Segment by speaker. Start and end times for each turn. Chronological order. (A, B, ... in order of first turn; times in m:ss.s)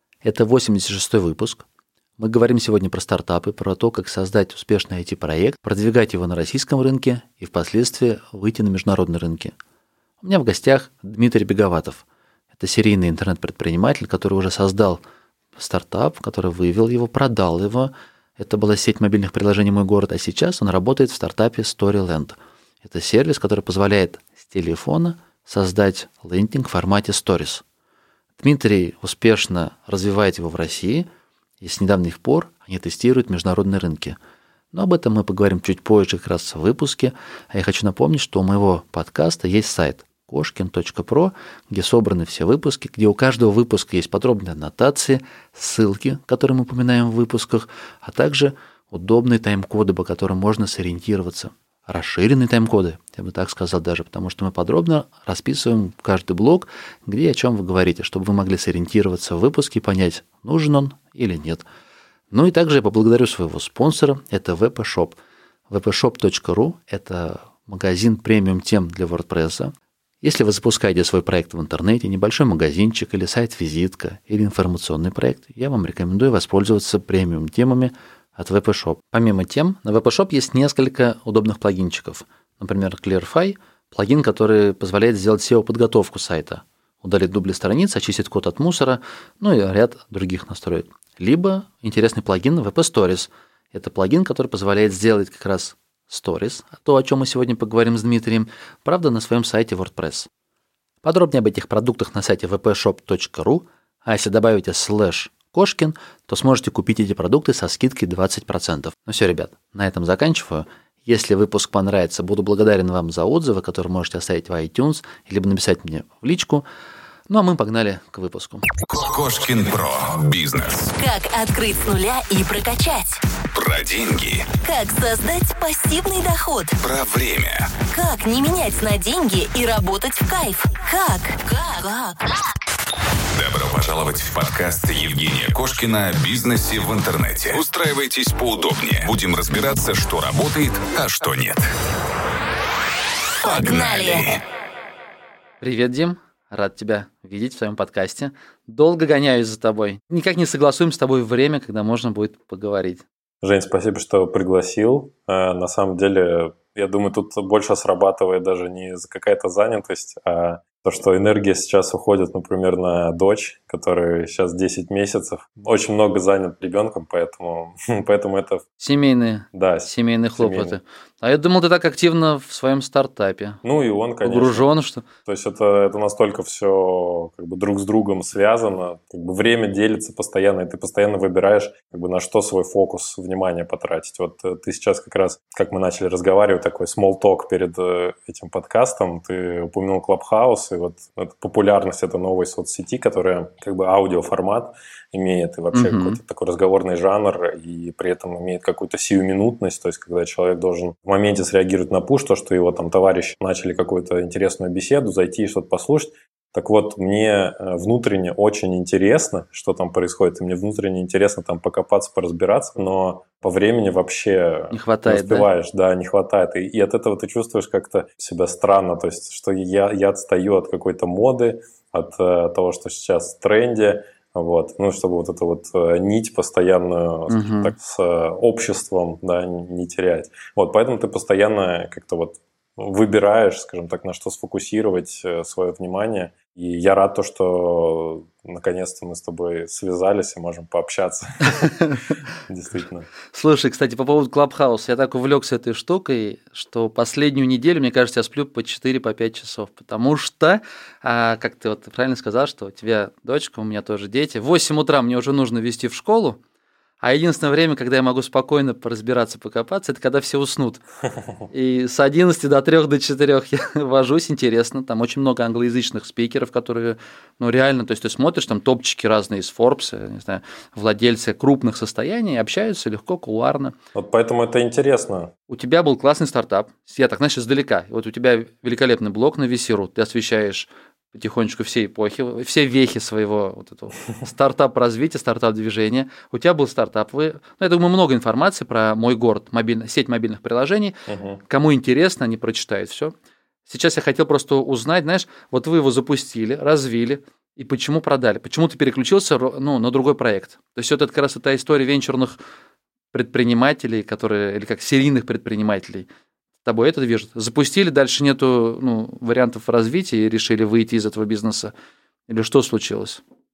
0:00.2-0:01.6 A
0:02.2-0:09.6 A
0:10.2-0:15.0 A
0:15.6-0:27.6 A
0:28.4-0:31.1 A
0:31.6-0:34.2 A
0:34.7-1:01.7 A
1:02.3-1:40.3 A
1:41.0-1:56.7 A
1:57.3-1:58.7 A
1:58.9-2:00.9 B
2:00.9-2:03.2 C
2:03.5-2:04.5 B
2:04.5-2:06.9 C
2:06.8-2:07.7 B
2:07.8-2:12.3 C
2:13.3-2:21.7 B
2:23.4-2:24.3 C
2:23.5-2:24.4 B
2:25.6-2:33.0 A
2:33.4-2:48.6 D
2:48.8-2:53.6 A
2:49.5-2:50.8 D
2:53.6-2:54.7 D
2:54.2-2:55.0 A
2:55.3-4:01.6 D
3:15.7-3:16.2 A
3:34.7-3:35.5 A
3:47.3-3:47.7 A
4:01.6-4:02.0 A
4:02.5-4:03.1 D
4:03.3-4:16.4 A
4:17.0-4:20.8 A
4:21.5-4:33.8 A
4:33.9-4:35.3 D
4:35.5-4:51.0 A
4:51.1-4:51.4 D
4:51.5-4:53.2 A
4:53.7-5:02.4 A
5:03.1-5:06.1 A
5:06.6-5:11.7 A
5:12.3-5:13.2 A